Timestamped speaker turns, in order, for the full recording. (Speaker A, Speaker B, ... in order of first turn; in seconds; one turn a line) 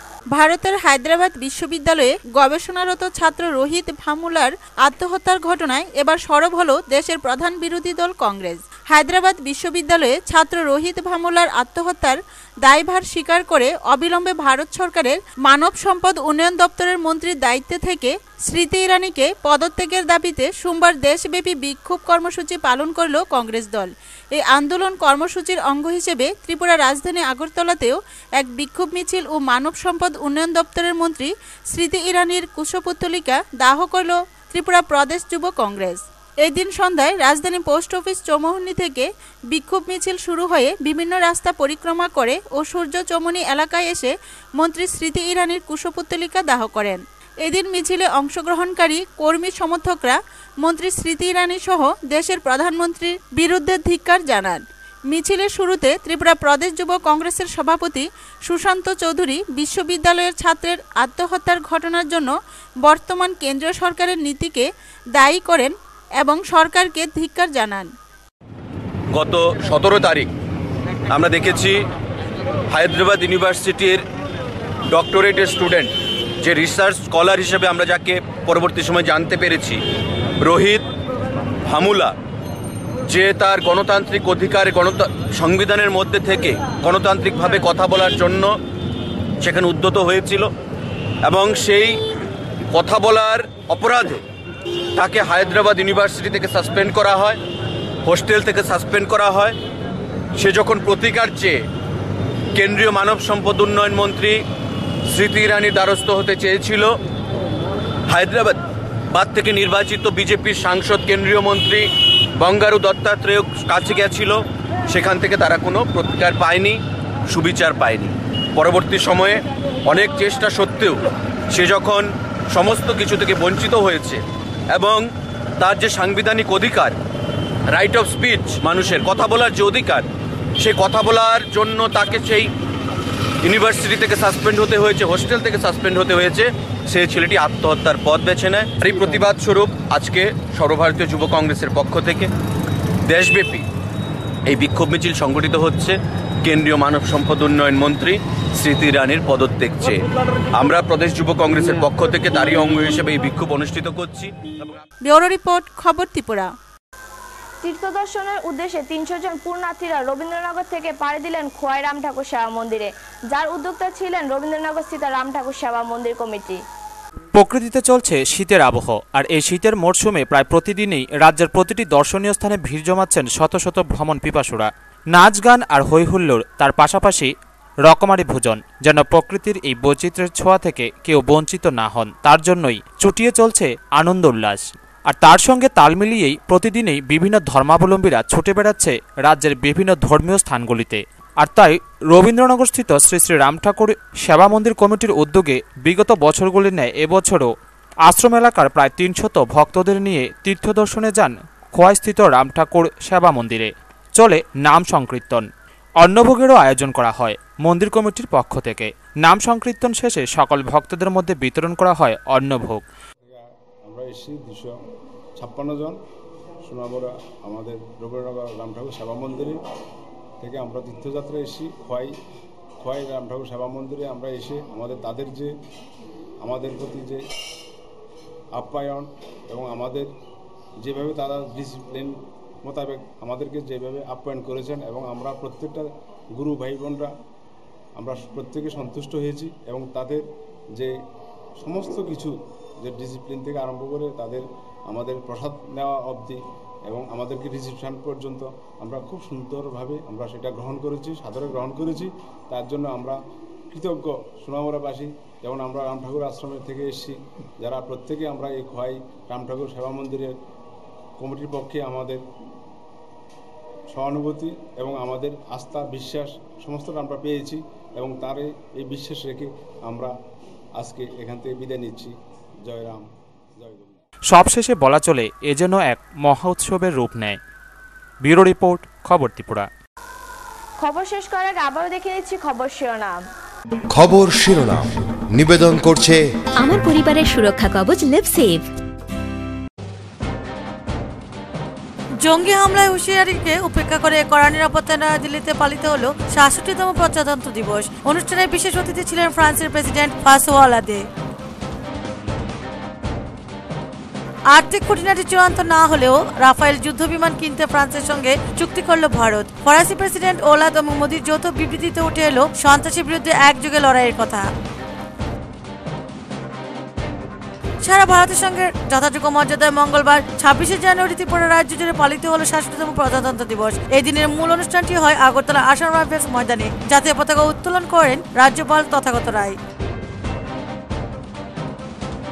Speaker A: 0.3-62.3
Speaker A: 62.8-67.9
Speaker B: 69.1-70.3
Speaker B: 71.1-71.8
Speaker B: 72.7-74.0
Speaker B: 74.9-79.8
Speaker B: 80.4-80.8
Speaker B: 81.7-82.1
Speaker B: 83.0-88.5
Speaker B: 89.4-90.5
Speaker B: 91.2-92.0
Speaker B: 92.7-94.2
Speaker B: 95.0-97.4
Speaker B: 98.0-99.5
Speaker B: 100.4-101.6
Speaker B: 102.5-104.4
Speaker B: 105.1-107.0
Speaker B: 108.1-108.6
Speaker B: 109.1-125.0
Speaker B: 125.6-126.9
Speaker B: 127.7-130.1
Speaker B: 130.6-132.5
Speaker B: 133.4-142.3
Speaker B: 143.1-143.7
Speaker B: 144.5-150.0
Speaker B: 150.5-154.7
Speaker A: 155.0-156.5
Speaker C: 157.6-166.6
Speaker D: 167.4-177.3
Speaker E: 167.4-168.3
Speaker D: 177.8-197.5
Speaker E: 189.9-190.2
Speaker E: 192.7-193.0
Speaker D: 198.0-205.4
Speaker D: 206.0-212.8
Speaker F: 213.2-214.8
Speaker F: 215.4-216.0
Speaker F: 216.6-219.6
Speaker F: 220.4-222.2
Speaker F: 222.8-225.6
Speaker F: 226.4-227.2
Speaker F: 228.5-230.1
Speaker F: 230.8-237.1
Speaker F: 238.0-240.9
Speaker F: 241.6-253.2
Speaker F: 253.7-260.4
Speaker F: 261.2-262.2
Speaker F: 263.9-270.1
Speaker F: 270.8-273.0
Speaker F: 273.6-274.0
Speaker D: 274.3-277.4
Speaker D: 278.2-279.7
Speaker E: 278.8-279.5
Speaker C: 280.8-283.2
Speaker G: 283.9-286.2
Speaker H: 286.6-288.7
Speaker E: 292.2-301.1
Speaker E: 304.5-314.5
Speaker E: 317.8-329.6